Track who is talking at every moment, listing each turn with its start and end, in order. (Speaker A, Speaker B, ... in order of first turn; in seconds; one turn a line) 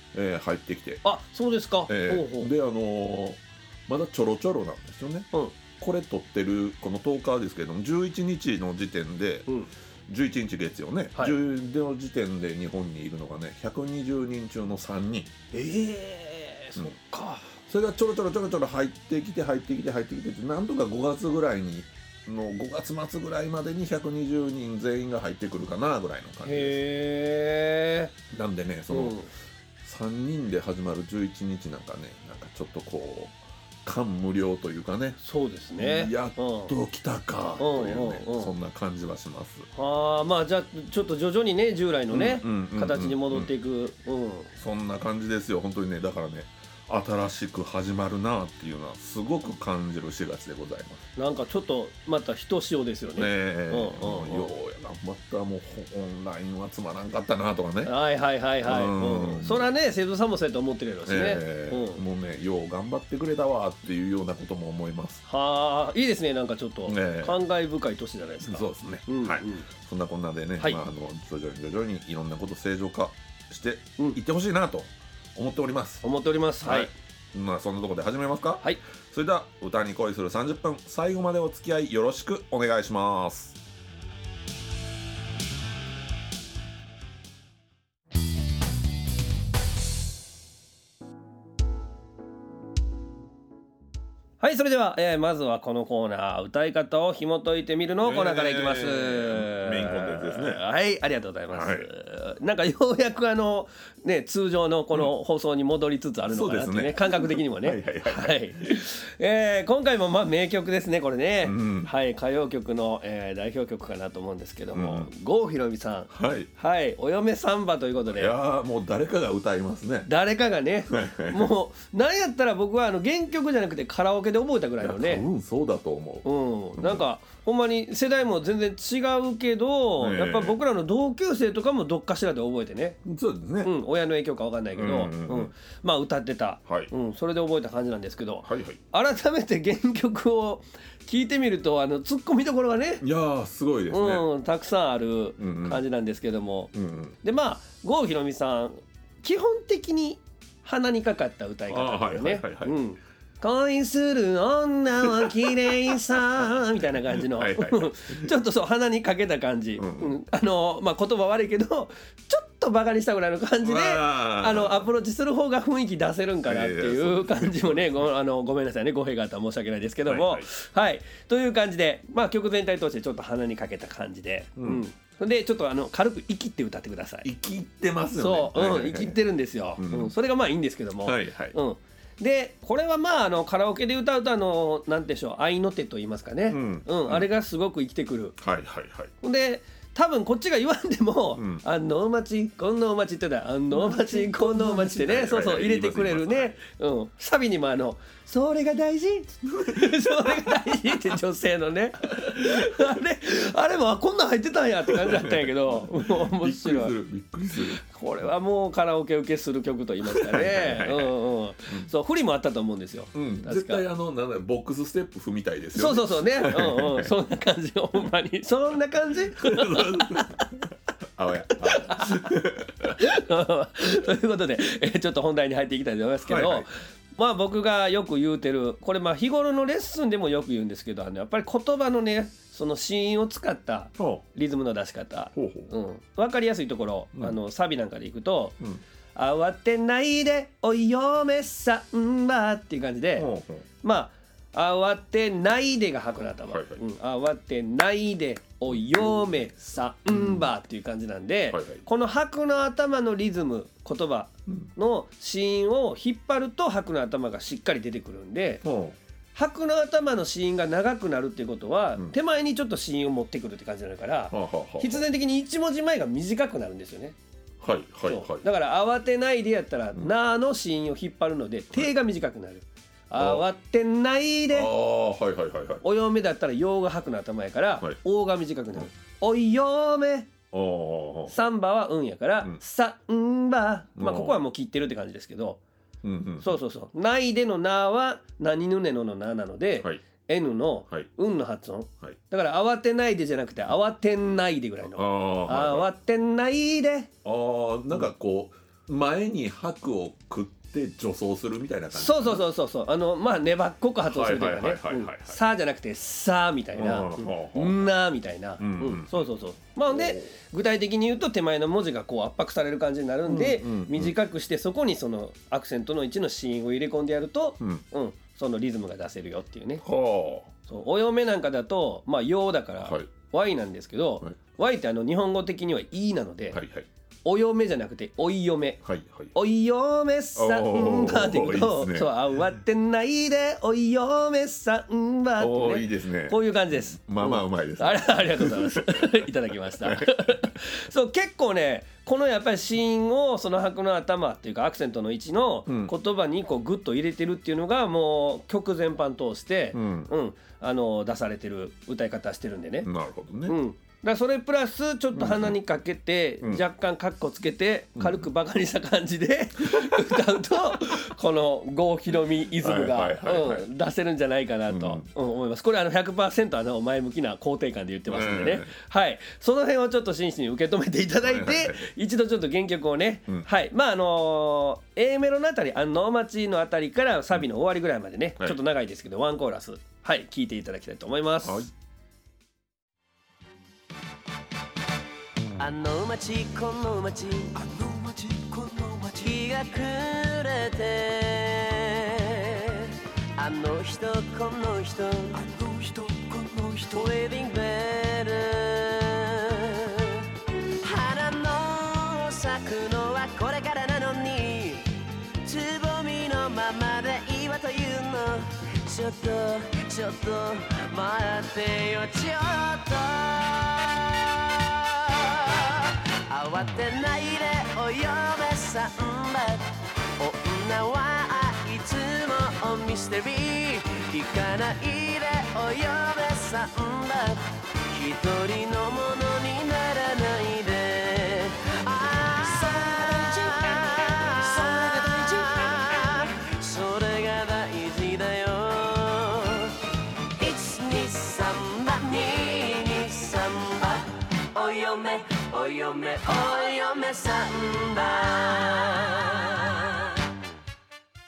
Speaker A: 0.1-1.0
Speaker B: 1.0-2.5
Speaker A: 1.9-9.5
Speaker A: 10.1-15.5
Speaker B: 15.5-17.6
Speaker A: 17.6-26.8
Speaker B: 26.4-28.1
Speaker A: 28.3-29.2
Speaker B: 28.9-29.3
Speaker A: 29.8-35.2
Speaker B: 35.2-36.7
Speaker A: 35.8-39.7
Speaker B: 37.6-38.5
Speaker B: 39.8-44.5
Speaker A: 42.1-43.5
Speaker A: 44.6-51.1
Speaker B: 51.2-54.5
Speaker A: 53.1-57.9
Speaker B: 57.8-62.0
Speaker A: 58.6-59.7
Speaker A: 61.1-65.2
Speaker B: 65.2-69.7
Speaker A: 66.8-67.4
Speaker A: 68.4-76.0
Speaker B: 76.0-76.9
Speaker A: 76.6-83.6
Speaker B: 94.4-118.3
Speaker A: 98.0-100.6
Speaker A: 101.5-101.9
Speaker A: 106.3-108.7
Speaker A: 111.4-111.9
Speaker A: 114.7-115.1
Speaker A: 116.1-116.5
Speaker A: 118.1-120.1
Speaker B: 120.0-125.3
Speaker A: 120.9-121.5
Speaker A: 124.8-127.0
Speaker B: 126.2-133.0
Speaker A: 130.0-130.6
Speaker A: 133.0-133.7
Speaker B: 133.6-143.0
Speaker A: 134.8-135.5
Speaker A: 136.7-136.9
Speaker A: 138.4-138.8
Speaker A: 143.0-144.3
Speaker B: 143.9-177.3
Speaker A: 145.4-145.8
Speaker A: 146.7-147.2
Speaker A: 151.7-152.8
Speaker A: 157.1-158.3
Speaker A: 159.8-160.1
Speaker A: 163.6-164.9
Speaker A: 166.4-168.1
Speaker A: 170.1-170.5
Speaker A: 174.6-174.8
Speaker A: 177.2-179.2
Speaker B: 178.2-188.4
Speaker A: 179.8-180.1
Speaker A: 181.0-181.6
Speaker A: 186.5-187.3
Speaker A: 188.4-189.1
Speaker B: 189.2-206.9
Speaker A: 191.3-191.6
Speaker A: 193.7-196.6
Speaker A: 199.5-201.1
Speaker A: 202.2-202.9
Speaker A: 204.8-207.8
Speaker B: 207.8-213.8
Speaker A: 210.0-211.1
Speaker A: 213.1-217.1
Speaker B: 215.7-220.4
Speaker A: 219.4-220.7
Speaker A: 221.2-223.0
Speaker B: 221.7-222.3
Speaker B: 222.9-238.6
Speaker A: 226.3-226.7
Speaker A: 234.0-234.2
Speaker A: 235.3-235.7
Speaker B: 239.2-243.3
Speaker A: 243.2-243.7
Speaker B: 243.8-258.6
Speaker A: 246.5-246.8
Speaker A: 248.7-249.3
Speaker A: 250.1-250.5
Speaker A: 251.5-251.8
Speaker A: 258.6-259.0
Speaker B: 259.4-267.1
Speaker A: 264.3-265.0
Speaker A: 267.6-268.4
Speaker B: 268.0-274.7
Speaker A: 273.1-273.5
Speaker A: 274.5-275.8
Speaker B: 275.8-280.3
Speaker A: 280.5-281.4
Speaker B: 281.3-285.6
Speaker A: 284.0-284.4
Speaker A: 286.0-286.6
Speaker B: 286.4-297.1
Speaker A: 294.9-295.9
Speaker A: 297.2-302.5
Speaker B: 301.9-319.8
Speaker A: 304.0-305.4
Speaker A: 306.7-307.8
Speaker A: 308.6-309.3
Speaker A: 309.9-310.3
Speaker A: 313.2-314.1
Speaker A: 319.8-320.5
Speaker B: 320.7-326.6
Speaker A: 322.8-323.1
Speaker A: 326.5-326.9
Speaker B: 327.2-328.8
Speaker A: 328.8-329.3
Speaker B: 329.3-352.9
Speaker A: 330.4-332.4
Speaker A: 335.4-339.3
Speaker A: 339.8-340.5
Speaker A: 345.7-345.9
Speaker A: 349.7-350.1
Speaker A: 352.8-353.6
Speaker B: 353.5-381.6
Speaker A: 355.1-355.6
Speaker A: 357.9-358.2
Speaker A: 362.6-363.6
Speaker A: 364.7-365.1
Speaker A: 368.1-368.7
Speaker A: 371.2-371.9
Speaker A: 381.4-381.7
Speaker C: 385.6-387.6
Speaker D: 387.5-389.6
Speaker C: 389.2-395.4
Speaker D: 395.3-397.2
Speaker C: 396.9-439.8
Speaker D: 432.4-436.1
Speaker C: 440.4-450.0